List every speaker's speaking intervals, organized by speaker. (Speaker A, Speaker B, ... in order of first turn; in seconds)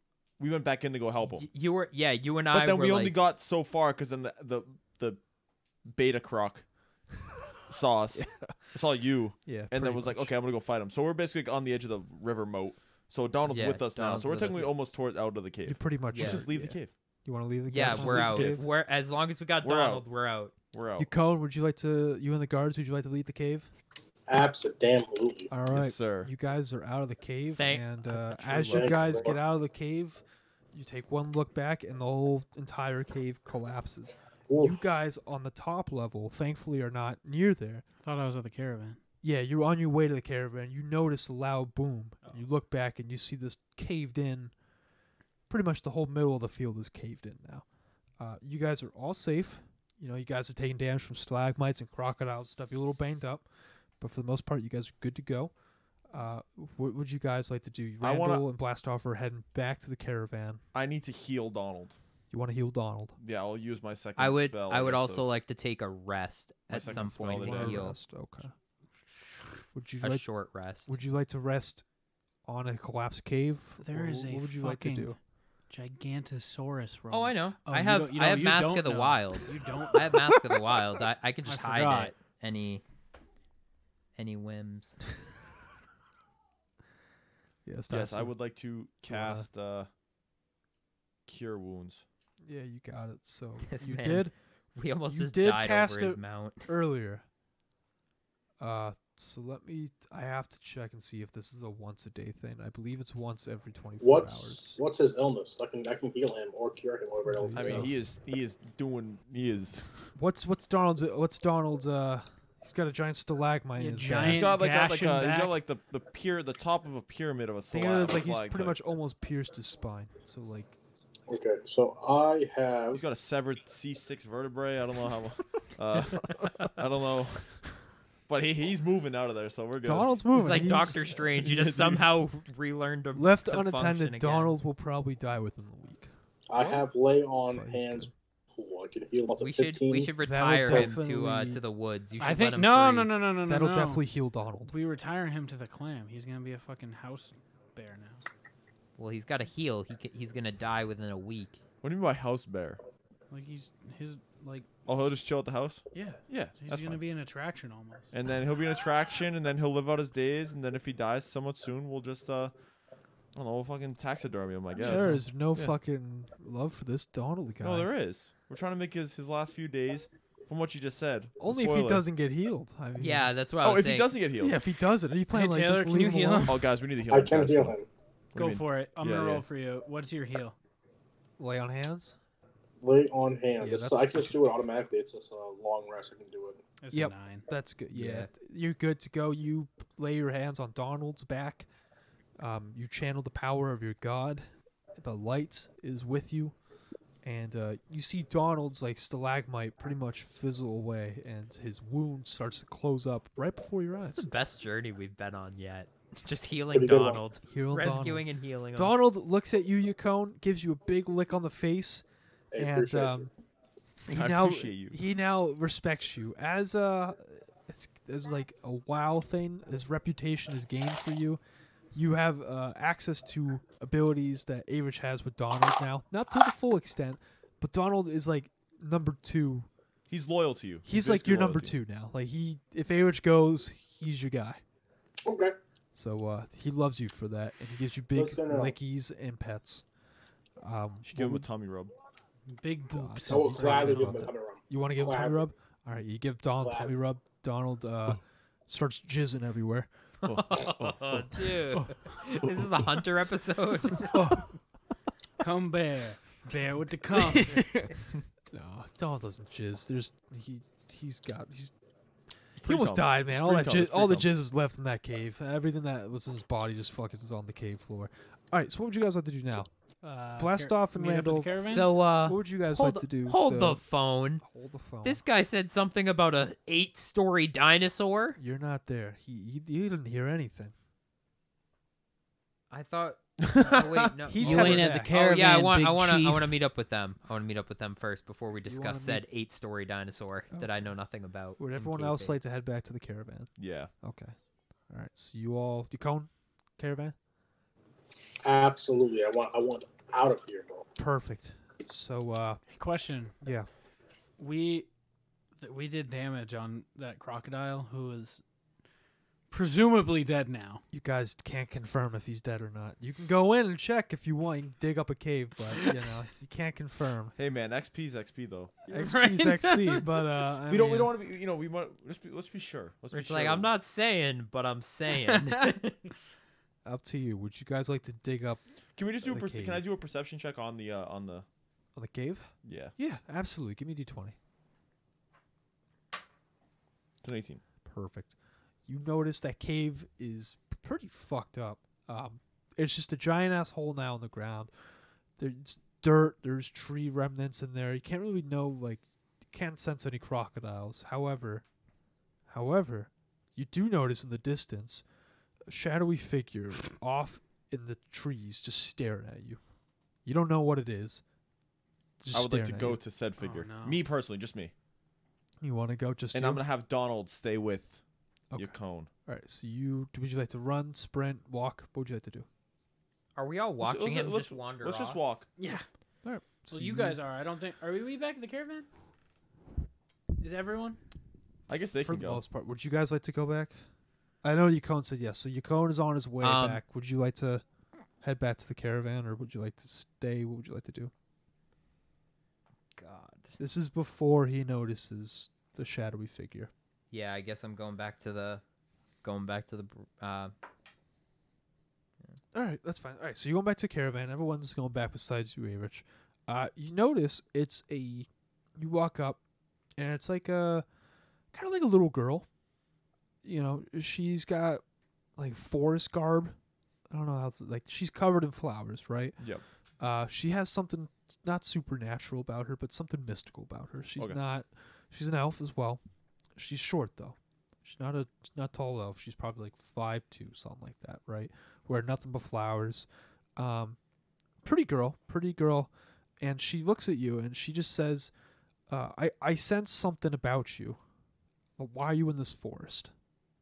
Speaker A: 0.4-1.4, 2.5-5.2, 5.9-6.7, 7.7-16.9, 17.8-18.6, 19.6-20.1, 20.7-21.1, 25.7-26.3, 28.1-29.1, 58.0-58.5, 60.7-62.0, 63.2-65.3, 66.7-67.9, 87.9-89.9, 91.3-92.0, 107.5-110.1, 114.2-118.8, 122.9-127.7, 128.3-130.2, 131.2-132.1, 151.8-152.8, 154.8-157.0, 158.1-162.5, 163.3-165.8, 167.6-172.1, 173.6-174.6, 176.4-177.8, 178.3-179.4, 214.1-215.0, 230.1-231.8, 241.0-241.9, 250.2-251.6, 262.6-264.3, 283.4-284.1, 293.6-293.9, 317.4-318.9, 320.7-323.7, 328.9-331.4, 332.6-332.9, 337.2-337.6, 362.3-364.7, 366.3-368.0, 368.5-369.1, 373.8-375.5, 381.7-382.4, 419.4-419.6
Speaker B: 1.3-3.1, 13.5-14.8, 16.1-16.4, 17.7-20.5, 27.6-27.9, 64.2-68.0, 70.0-70.9, 77.1-82.8, 84.2-85.0, 93.6-96.7, 130.3-134.6, 139.4-143.1, 149.0-151.6, 172.9-174.1, 187.9-188.3, 204.2-208.9, 250.2-254.3, 271.6-274.4, 275.0-278.4, 282.7-292.4, 323.1-326.1, 373.3-375.2, 386.4-386.8, 392.9-393.6, 397.1-398.6, 399.2-400.5
Speaker C: 8.1-8.5, 9.4-10.3, 15.7-18.6, 21.0-23.7, 25.5-37.8, 39.2-44.5, 45.5-47.6, 48.2-53.5, 54.0-55.5, 56.1-60.6, 62.3-63.2, 66.7-68.5, 69.7-70.3, 70.8-71.8, 72.5-75.2, 87.7-88.3, 89.0-89.5, 92.4-94.3, 95.1-97.2, 98.6-104.8, 107.2-108.0, 110.1-114.5, 117.7-120.8, 129.8-131.1, 133.1-136.8, 137.5-138.1, 140.2-141.6, 143.4-144.7, 164.8-167.9, 171.4-173.3, 174.4-176.6, 181.4-182.2, 183.6-184.4, 186.9-191.7, 192.4-194.5, 195.0-196.5, 197.2-204.3, 207.4-212.0, 212.6-213.3, 214.1-221.4, 221.9-229.7, 230.8-234.6, 235.9-239.8, 240.6-241.5, 242.9-249.9, 257.1-257.9, 258.5-261.7, 262.6-269.7, 270.4-273.8, 274.4-275.2, 278.4-280.7, 284.3-285.1, 288.6-289.2, 290.5-290.8, 291.6-294.3, 294.9-297.1, 300.9-302.6, 303.4-303.7, 310.9-317.3, 318.9-321.1, 326.8-328.6, 329.2-329.8, 331.9-334.4, 337.8-338.3, 338.9-344.7, 345.4-351.6, 352.5-355.0, 355.7-359.6, 360.2-361.2, 362.2-363.0, 365.6-366.6, 368.5-372.5, 376.2-377.2, 381.9-383.8, 384.4-387.6, 388.2-391.1, 393.6-396.7, 402.5-409.4, 410.0-410.9, 411.5-412.4, 413.4-414.8, 415.4-416.6, 417.1-419.4, 420.0-426.0, 426.6-434.0, 434.6-438.3, 438.9-441.0, 441.8-443.1
Speaker D: 24.3-25.5, 28.6-29.4, 34.5-34.9, 104.0-108.0, 121.3-123.0, 136.5-140.1, 177.1-177.9, 182.8-186.6, 206.7-207.2, 212.5-213.3, 235.2-235.5, 238.1-238.8, 243.3-245.4, 246.6-246.9, 298.4-300.9
Speaker E: 38.0-39.0, 73.8-75.1, 75.7-80.4, 81.4-82.1, 113.8-115.5, 142.2-144.0, 144.7-148.2, 153.3-154.8, 155.9-158.1, 175.3-176.6, 178.3-180.6, 186.8-187.4, 242.5-244.2, 254.1-254.5, 255.4-257.6, 270.0-271.9, 284.4-286.5, 302.7-303.3, 304.4-304.9, 305.6-308.4, 309.5-310.8, 318.9-320.0, 325.2-325.7, 363.4-364.0, 375.6-375.8, 376.7-378.9, 380.4-381.0